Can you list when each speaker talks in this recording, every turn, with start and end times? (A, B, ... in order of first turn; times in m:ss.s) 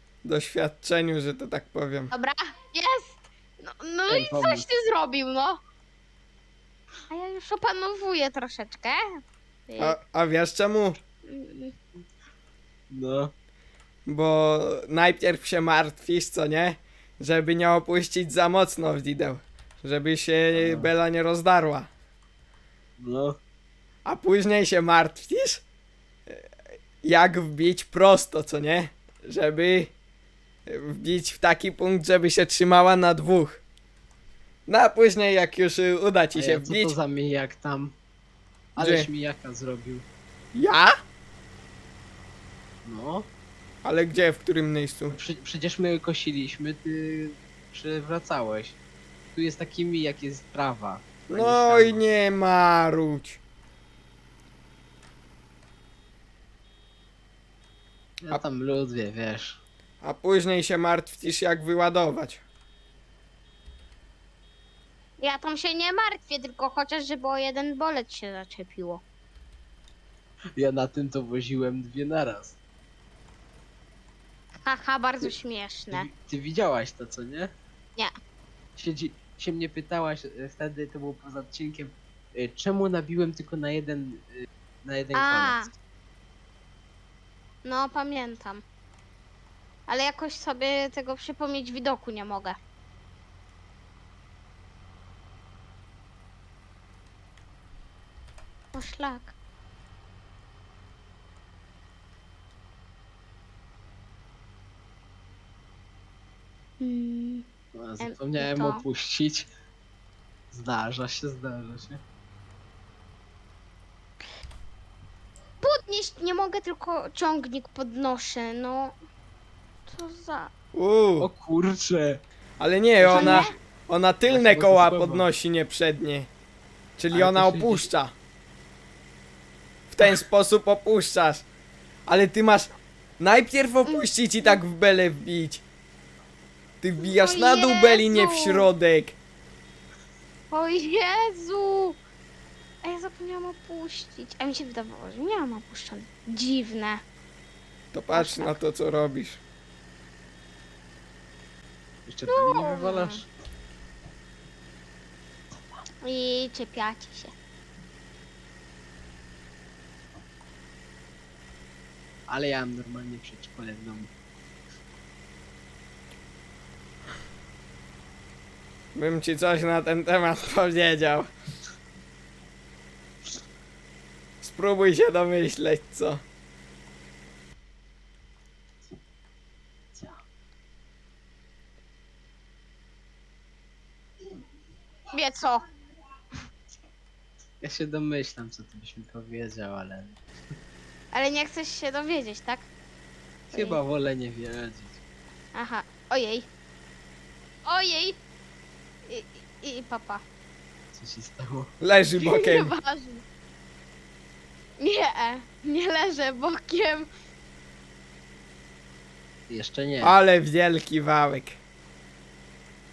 0:00.2-0:02.1 A
0:02.1-0:05.6 B
0:04.1-0:04.6 C
0:07.1-0:09.0 B
0:09.7-0:10.0 B
0:09.8-0:11.0 A
0:11.3-0:11.7 B
0:12.9-0:13.3 C
0:14.0-0:21.9 A
0:20.5-0:20.9 C
0:23.0-0:23.4 C
0:24.0-0:25.6 A
0:27.0-0:29.9 A
0:30.7-0:33.6 A
0:34.7-0:37.0 A
0:36.4-0:38.0 C
0:38.8-0:40.0 C
0:38.8-0:39.1 A
0:40.5-0:41.0 A
0:42.8-0:43.3 C
0:43.8-0:45.2 A
0:45.1-0:48.8 C
0:49.3-0:52.0 C
0:51.3-0:53.4 A
0:58.2-0:59.6 C
1:00.0-1:02.4 A
1:05.2-1:09.0 B
1:10.6-1:12.6 C
1:14.6-1:16.1 B
1:15.9-1:17.5 C
1:18.8-1:25.6 C
1:25.1-1:25.7 B
1:27.6-1:28.6 B
1:29.9-1:32.6 B
1:38.7-1:39.3 B
1:46.8-1:47.5 B
1:47.8-1:49.5 C
1:48.0-1:48.8 B
1:50.5-1:52.0 C
1:55.6-1:58.9 B
1:59.9-2:00.5 B
2:00.8-2:01.3 A
2:01.2-2:02.2 C
2:02.6-2:06.3 A
2:03.0-2:03.5 C
2:03.1-2:03.5 B
2:04.3-2:05.3 C
2:07.0-2:08.1 A
2:07.1-2:07.9 C
2:09.9-2:11.4 A
2:12.1-2:15.6 A
2:13.9-2:14.6 B
2:16.8-2:19.2 A
2:17.0-2:18.7 B
2:20.5-2:22.0 B
2:22.8-2:27.0 B
2:27.9-2:29.4 A
2:28.1-2:28.6 B
2:32.1-2:33.2 C
2:32.3-2:33.2 B
2:36.0-2:37.3 B
2:42.3-2:44.1 C
2:49.0-2:51.3 A
2:54.4-2:56.2 A
3:05.1-3:05.6 B
3:07.6-3:10.3 C
3:11.1-3:12.6 B
3:13.5-3:15.0 C
3:13.5-3:13.8 B
3:15.5-3:16.5 B
3:17.6-3:18.2 B
3:19.0-3:20.2 B
3:20.9-3:21.7 C
3:21.8-3:22.7 A
3:22.2-3:23.2 B
3:24.8-3:27.1 B
3:29.5-3:30.2 C
3:30.0-3:31.6 A